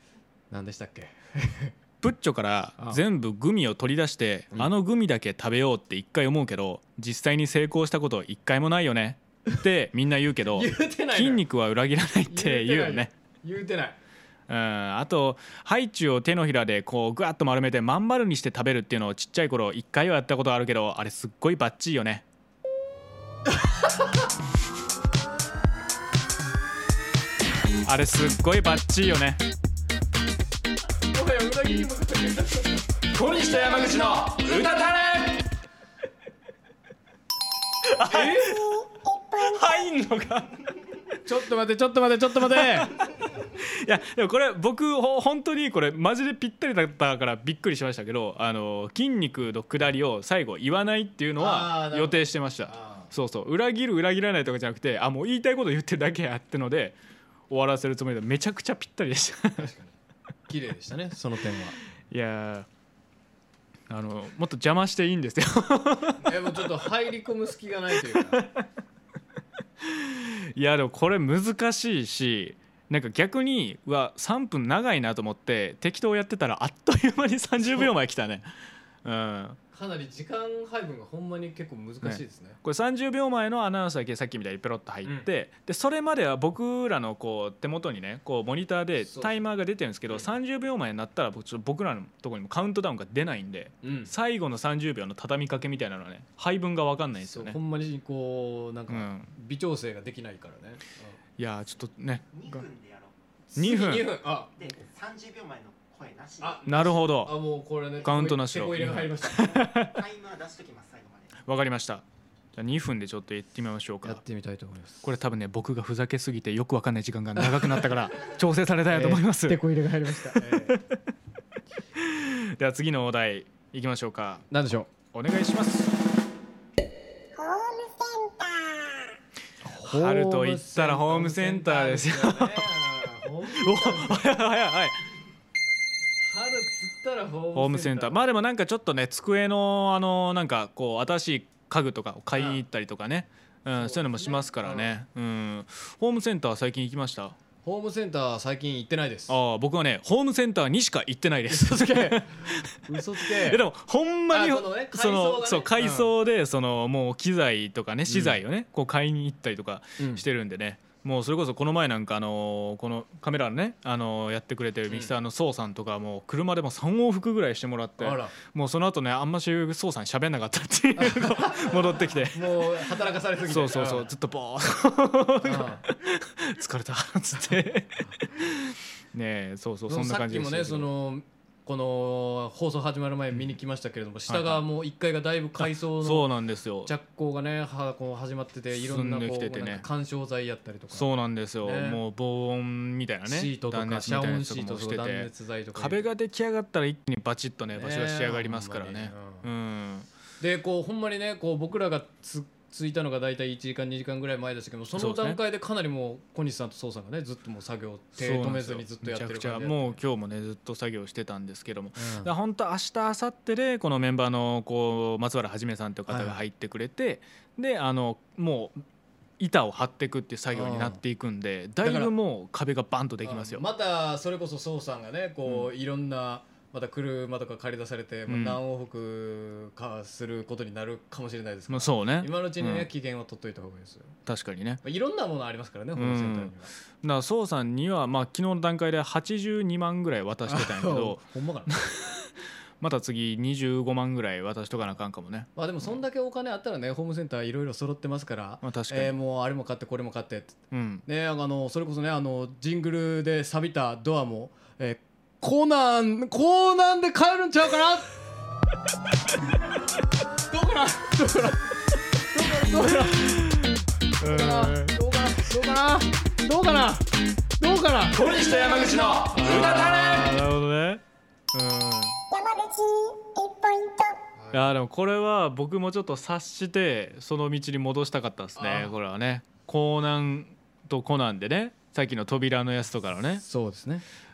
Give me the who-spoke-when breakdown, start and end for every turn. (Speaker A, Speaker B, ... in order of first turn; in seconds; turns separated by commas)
Speaker A: 0.5-1.7, Speaker B: 2.0-13.1, Speaker A: 10.5-11.4, Speaker A: 12.3-14.0, Speaker B: 14.5-22.2, Speaker B: 27.9-29.4, Speaker A: 31.1-33.0, Speaker B: 33.2-35.2, Speaker B: 37.8-38.7, Speaker A: 38.0-38.5, Speaker C: 38.4-39.8, Speaker B: 39.4-40.6, Speaker A: 41.2-42.9, Speaker B: 42.5-42.9, Speaker B: 43.5-57.0, Speaker A: 51.4-53.1, Speaker B: 57.5-59.7, Speaker A: 59.6-59.9, Speaker A: 60.5-61.8, Speaker B: 62.1-62.7, Speaker B: 63.9-66.6, Speaker A: 66.2-68.4, Speaker B: 68.1-68.7, Speaker B: 69.8-78.5, Speaker B: 79.0-79.6, Speaker A: 79.7-82.6, Speaker B: 82.0-97.6, Speaker A: 89.1-89.3, Speaker A: 93.8-94.1, Speaker A: 97.2-101.2, Speaker B: 98.9-99.3, Speaker B: 101.4-102.7, Speaker D: 102.3-103.1, Speaker A: 103.5-104.5, Speaker B: 103.6-104.2, Speaker D: 104.5-106.8, Speaker A: 106.4-109.5, Speaker B: 106.7-107.4, Speaker B: 108.0-110.0, Speaker D: 109.4-111.3, Speaker B: 111.4-112.0, Speaker B: 112.5-114.2, Speaker A: 114.0-115.1, Speaker B: 115.0-119.6, Speaker A: 117.4-117.8, Speaker A: 118.9-120.8, Speaker B: 120.3-120.8, Speaker B: 122.0-124.5, Speaker A: 124.5-124.9, Speaker B: 125.1-125.9, Speaker C: 127.4-129.0, Speaker A: 129.6-134.3, Speaker B: 129.8-132.7, Speaker B: 133.6-135.0, Speaker A: 136.2-138.2, Speaker B: 137.6-147.4, Speaker A: 142.3-142.6, Speaker A: 143.7-145.0, Speaker A: 147.6-149.3, Speaker B: 149.3-172.8, Speaker A: 151.5-153.6, Speaker A: 154.3-156.1, Speaker A: 158.1-158.4, Speaker A: 160.0-160.2, Speaker A: 168.0-168.3, Speaker A: 171.0-171.8, Speaker A: 172.3-174.1, Speaker B: 173.5-180.9, Speaker A: 175.4-175.9, Speaker A: 179.9-186.3, Speaker B: 184.3-184.6, Speaker B: 185.6-186.9, Speaker A: 186.8-191.1, Speaker B: 188.7-189.8, Speaker B: 190.9-200.1, Speaker A: 191.6-192.0, Speaker A: 193.3-196.1, Speaker A: 197.8-199.5, Speaker A: 200.4-210.0, Speaker B: 205.0-205.4, Speaker B: 208.2-218.8, Speaker A: 212.0-212.3, Speaker A: 216.1-216.4, Speaker B: 219.4-223.6, Speaker A: 220.5-221.0, Speaker A: 221.8-222.1, Speaker A: 223.2-234.2, Speaker B: 228.3-228.6, Speaker B: 231.7-232.9, Speaker B: 234.3-234.8, Speaker A: 234.8-236.7, Speaker B: 236.0-245.5, Speaker A: 240.5-241.8, Speaker A: 245.6-258.1, Speaker B: 248.6-249.1, Speaker B: 250.7-251.0, Speaker A: 260.5-263.4, Speaker B: 263.2-264.9, Speaker A: 264.2-267.1, Speaker A: 267.6-268.5, Speaker B: 268.3-272.2, Speaker A: 269.3-270.1, Speaker C: 272.3-274.2, Speaker A: 274.4-274.7, Speaker B: 274.5-283.4, Speaker A: 278.6-278.9, Speaker A: 283.4-284.0